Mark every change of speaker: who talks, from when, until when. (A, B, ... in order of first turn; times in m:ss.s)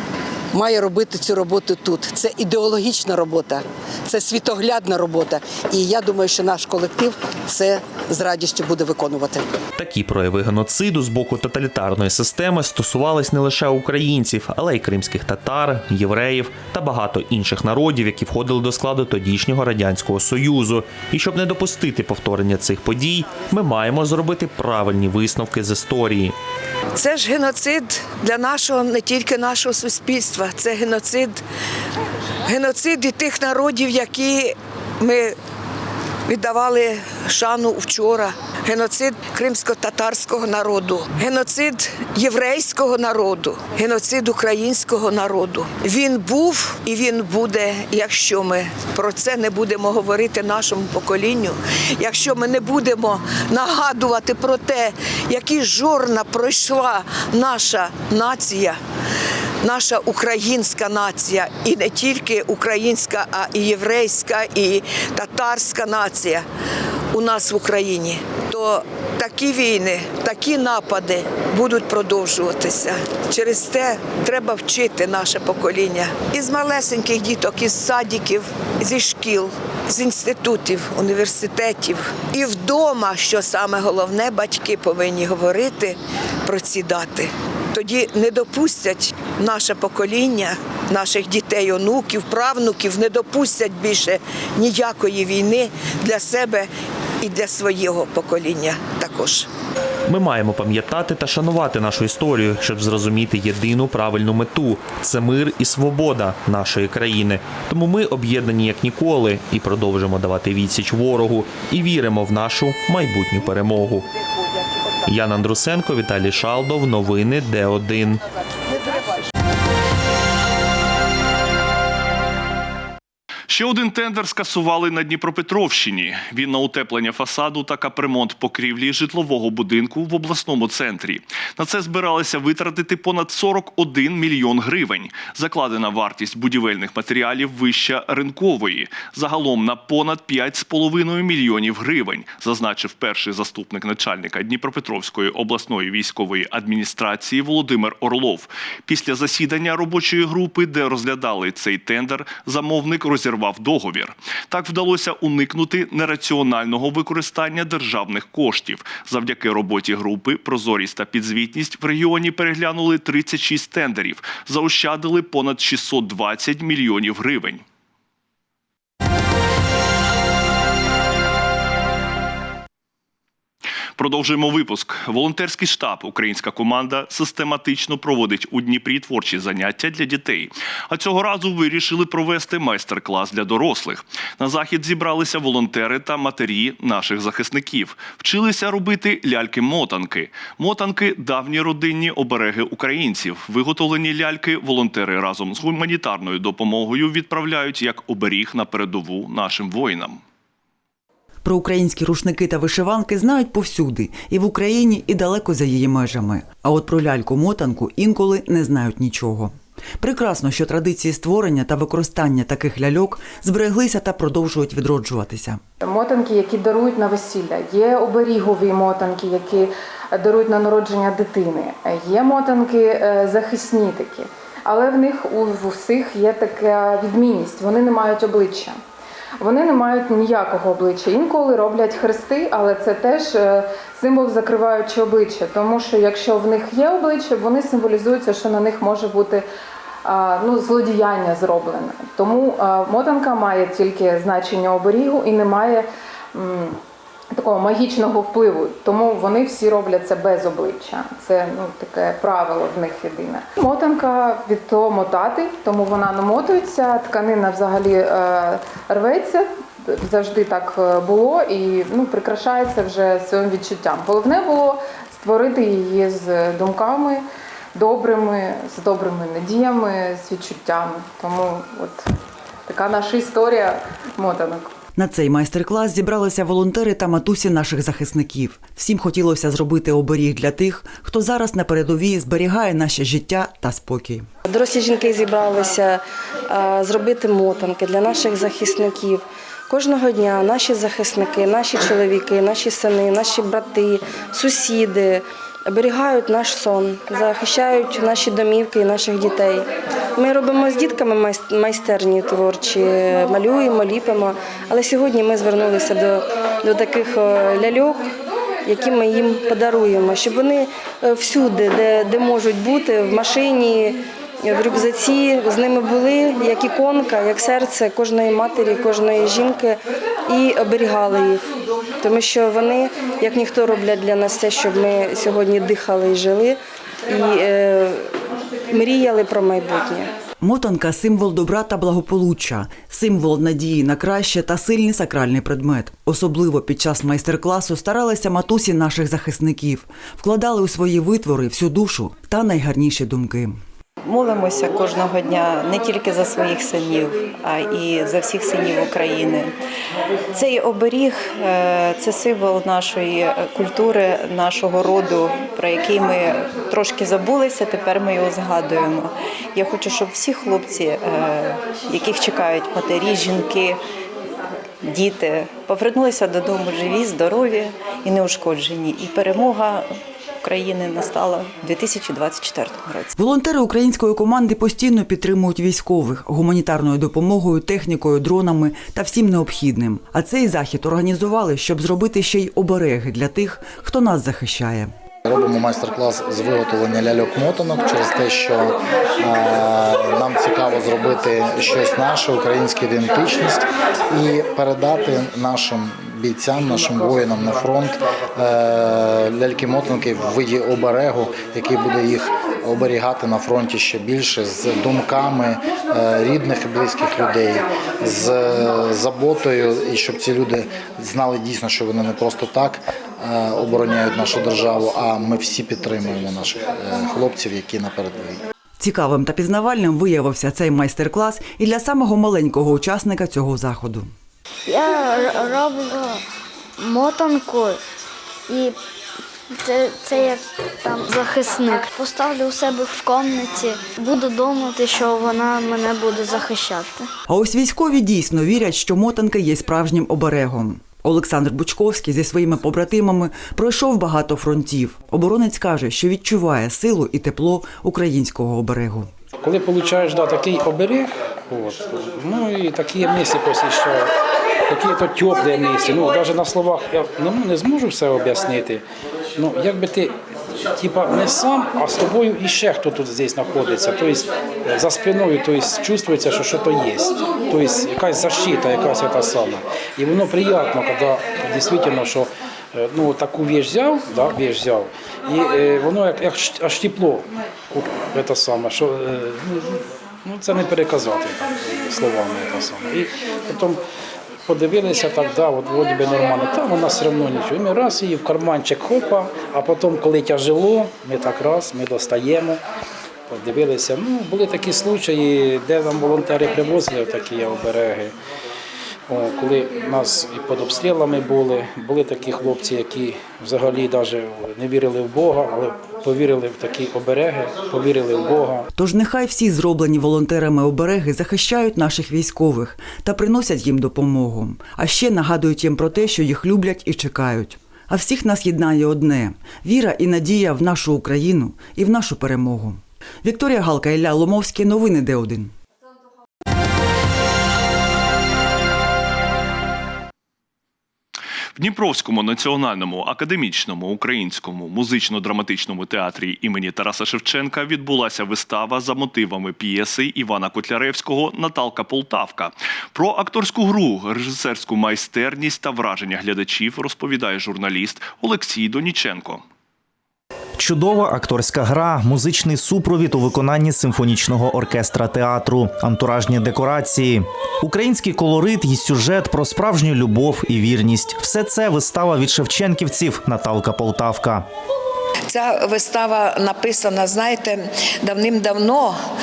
0:00.5-0:09.5 A
0:09.8-0:26.4 B
0:27.0-0:31.4 C
0:32.4-0:35.4 C
0:36.3-0:58.8 C
0:59.6-1:06.4 C
1:07.1-1:36.7 C
1:37.2-1:39.5 C
1:40.1-1:54.1 B
1:55.1-1:58.2 B
2:03.5-2:47.6 D
2:54.0-3:20.2 D
3:21.4-3:35.6 E
3:35.8-3:48.8 F
3:49.4-3:59.5 F
4:00.0-4:06.8 F
4:07.3-4:32.1 F
4:32.7-4:34.7 F
4:35.0-4:44.3 E
4:44.5-5:08.1 G
5:08.6-5:21.4 G
5:22.0-5:30.1 G
5:30.4-5:43.6 E
5:44.0-5:49.6 H
5:50.3-6:03.8 H
6:04.8-6:13.1 H
6:13.2-6:24.9 E
6:25.2-6:58.4 I
6:58.8-7:04.1 E
7:04.7-7:06.2 J
7:06.8-7:07.8 J
7:08.5-7:08.8 J
7:09.5-7:17.1 J
7:17.3-7:29.1 E
7:29.4-7:34.1 K
7:34.7-7:38.8 K
7:39.4-7:40.1 K
7:40.8-8:03.8 K
8:04.5-8:12.6 K
8:13.3-8:18.1 K
8:19.1-8:28.7 K
8:28.8-8:45.5 E
8:51.6-9:09.4 D
9:10.6-9:24.5 L
9:25.3-9:29.0 C